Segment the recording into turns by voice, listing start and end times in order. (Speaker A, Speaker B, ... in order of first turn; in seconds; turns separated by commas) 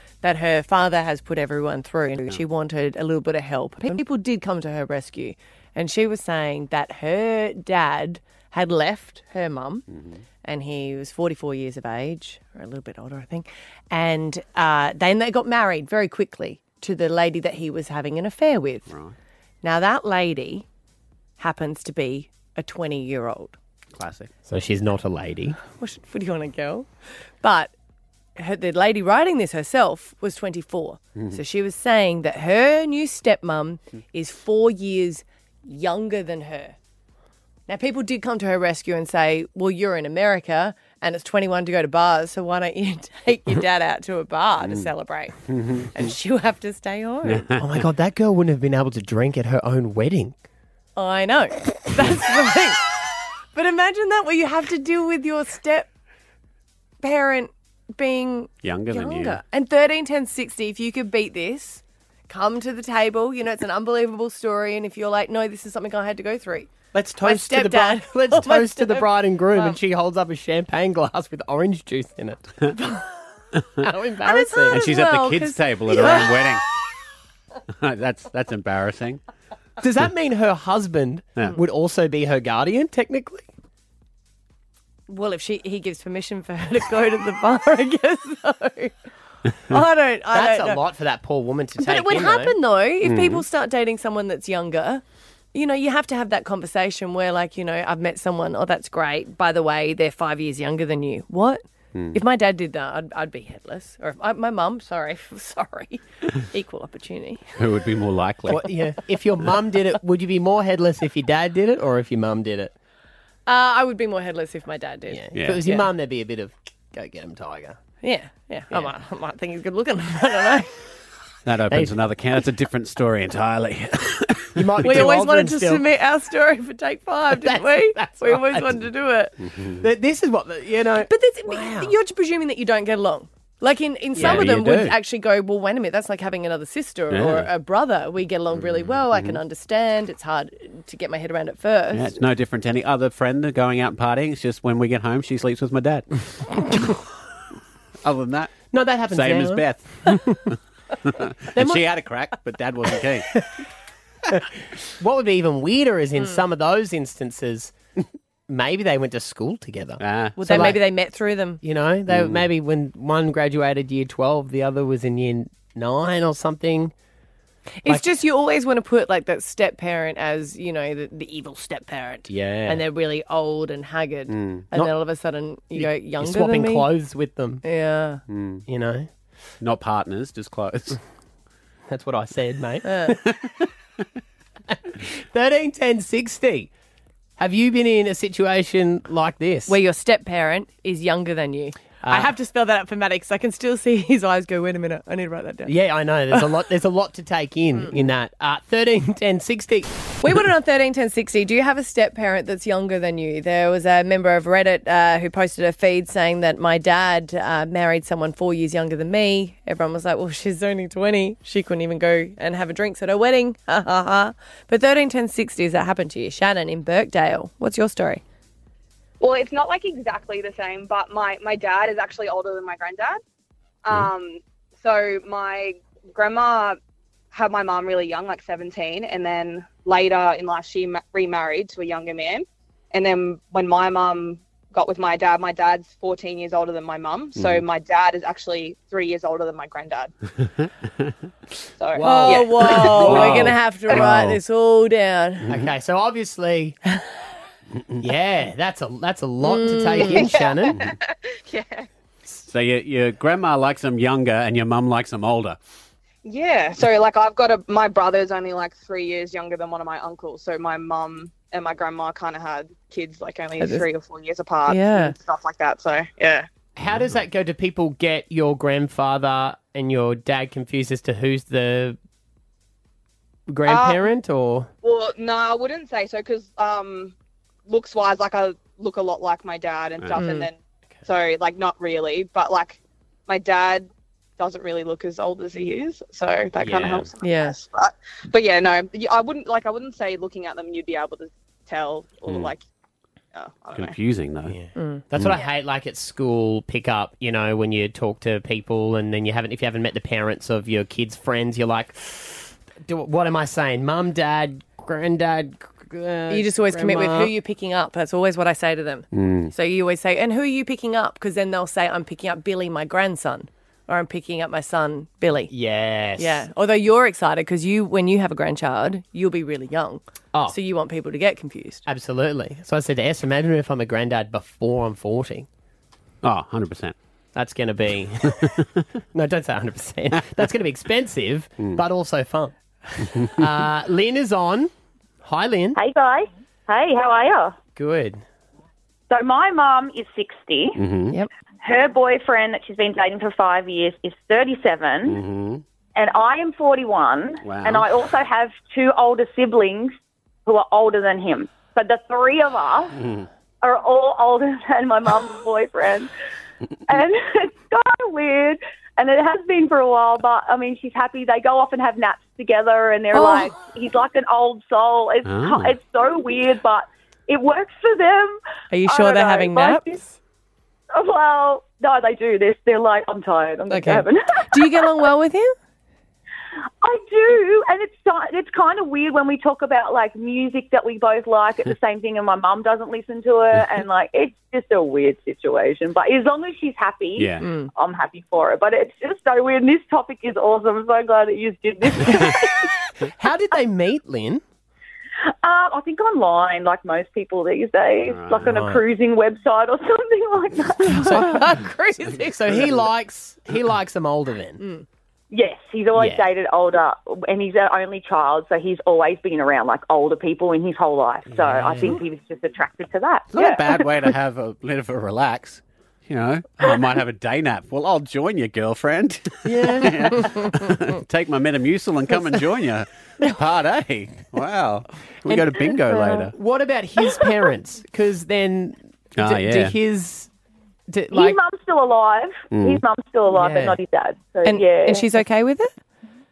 Speaker A: 0.2-9.8, Speaker B: 9.9-10.2, Speaker A: 10.4-18.9, Speaker B: 18.9-19.2, Speaker A: 19.6-20.7, Speaker A: 21.4-23.6, Speaker B: 23.9-24.3, Speaker C: 24.5-25.6, Speaker A: 25.8-26.9, Speaker A: 27.4-27.7, Speaker A: 28.4-36.8, Speaker A: 37.7-47.5, Speaker B: 45.5-45.9, Speaker B: 47.2-47.6, Speaker C: 47.6-50.4, Speaker A: 51.0-53.0, Speaker A: 53.5-55.9, Speaker A: 57.0-69.8, Speaker B: 58.6-59.4, Speaker C: 66.9-72.7, Speaker C: 73.8-74.9, Speaker A: 74.2-76.5, Speaker B: 74.7-76.7, Speaker B: 77.7-79.2, Speaker C: 79.8-83.5, Speaker A: 85.1-88.9, Speaker A: 89.6-90.8, Speaker C: 90.3-92.6, Speaker A: 91.8-95.0, Speaker B: 93.0-93.5, Speaker A: 95.5-107.5, Speaker B: 107.6-108.7, Speaker C: 108.5-112.7, Speaker A: 113.5-115.9, Speaker C: 115.1-117.8, Speaker A: 118.0-120.9, Speaker B: 121.5-125.0, Speaker C: 124.6-125.9, Speaker A: 124.8-129.3, Speaker C: 127.3-128.8, Speaker B: 129.4-129.8, Speaker C: 129.8-131.9, Speaker A: 131.1-142.2, Speaker B: 134.2-135.0, Speaker C: 134.2-134.5, Speaker B: 137.1-137.5, Speaker B: 138.5-139.4, Speaker B: 141.9-147.1, Speaker B: 148.0-153.4, Speaker C: 148.7-150.3, Speaker C: 151.6-151.8, Speaker C: 154.9-157.8, Speaker C: 158.5-160.9, Speaker B: 160.0-160.4, Speaker A: 160.4-161.6, Speaker C: 161.6-166.9, Speaker B: 162.1-162.5, Speaker A: 167.8-176.9, Speaker C: 172.3-172.8, Speaker B: 174.3-174.7, Speaker C: 175.8-177.6, Speaker A: 177.6-178.2, Speaker B: 178.3-178.6, Speaker C: 178.7-179.1, Speaker B: 179.6-181.0, Speaker C: 181.9-183.3, Speaker A: 182.9-183.2, Speaker B: 183.4-183.7, Speaker C: 184.7-186.7, Speaker C: 187.4-189.8, Speaker A: 189.7-195.7, Speaker C: 192.0-192.3, Speaker C: 195.7-200.4, Speaker A: 200.2-218.2, Speaker D: 219.2-223.2, Speaker D: 223.8-226.8, Speaker D: 227.3-240.1, Speaker B: 237.4-237.6, Speaker D: 241.8-244.1, Speaker C: 241.9-243.2, Speaker A: 242.0-245.5, Speaker B: 243.0-244.4, Speaker C: 245.5-246.8, Speaker C: 248.0-250.8, Speaker A: 249.4-250.2, Speaker D: 250.1-251.9, Speaker B: 252.5-255.6, Speaker D: 256.2-266.5, Speaker A: 263.6-263.9, Speaker A: 264.7-265.1, Speaker C: 266.8-272.0, Speaker B: 266.9-267.2, Speaker C: 273.5-274.7, Speaker D: 273.7-274.1, Speaker D: 274.8-277.1, Speaker D: 277.7-283.9, Speaker B: 280.0-280.3, Speaker A: 280.2-280.5, Speaker D: 284.4-292.6, Speaker C: 286.6-287.1, Speaker A: 287.2-287.6, Speaker D: 293.3-294.0, Speaker B: 293.7-294.6, Speaker C: 294.5-307.3, Speaker A: 294.8-295.0, Speaker A: 306.3-315.5, Speaker B: 309.1-309.5, Speaker C: 315.5-316.5, Speaker A: 316.2-321.9, Speaker C: 321.9-325.5, Speaker B: 326.2-327.0, Speaker C: 327.4-328.5, Speaker C: 329.1-332.6, Speaker C: 333.3-334.7, Speaker C: 335.2-335.8, Speaker E: 335.8-337.6, Speaker C: 337.8-338.2, Speaker E: 339.1-340.8, Speaker B: 340.8-341.2, Speaker E: 341.6-345.2, Speaker B: 345.1-345.6, Speaker E: 345.9-353.0, Speaker B: 347.4-347.9, Speaker B: 353.0-353.3, Speaker E: 353.6-356.1, Speaker E: 356.9-370.0, Speaker A: 363.1-363.5, Speaker B: 365.2-365.8, Speaker A: 368.7-370.2, Speaker E: 370.9-374.7, Speaker A: 373.7-375.6, Speaker E: 376.8-392.9, Speaker B: 387.2-387.4, Speaker A: 387.4-387.7, Speaker C: 393.2-394.4, Speaker E: 395.4-401.3, Speaker B: 398.1-398.6, Speaker C: 398.4-398.8, Speaker C: 400.9-401.4, Speaker A: 400.9-402.7, Speaker C: 402.2-404.6, Speaker A: 404.6-404.9, Speaker E: 405.3-413.7, Speaker C: 405.9-406.3, Speaker C: 411.3-412.0, Speaker B: 413.3-426.3, Speaker C: 419.4-420.1, Speaker C: 425.3-430.3, Speaker B: 429.2-429.8, Speaker C: 430.9-431.4, Speaker E: 431.1-435.1, Speaker B: 432.5-432.8, Speaker C: 433.3-433.8, Speaker A: 434.4-435.7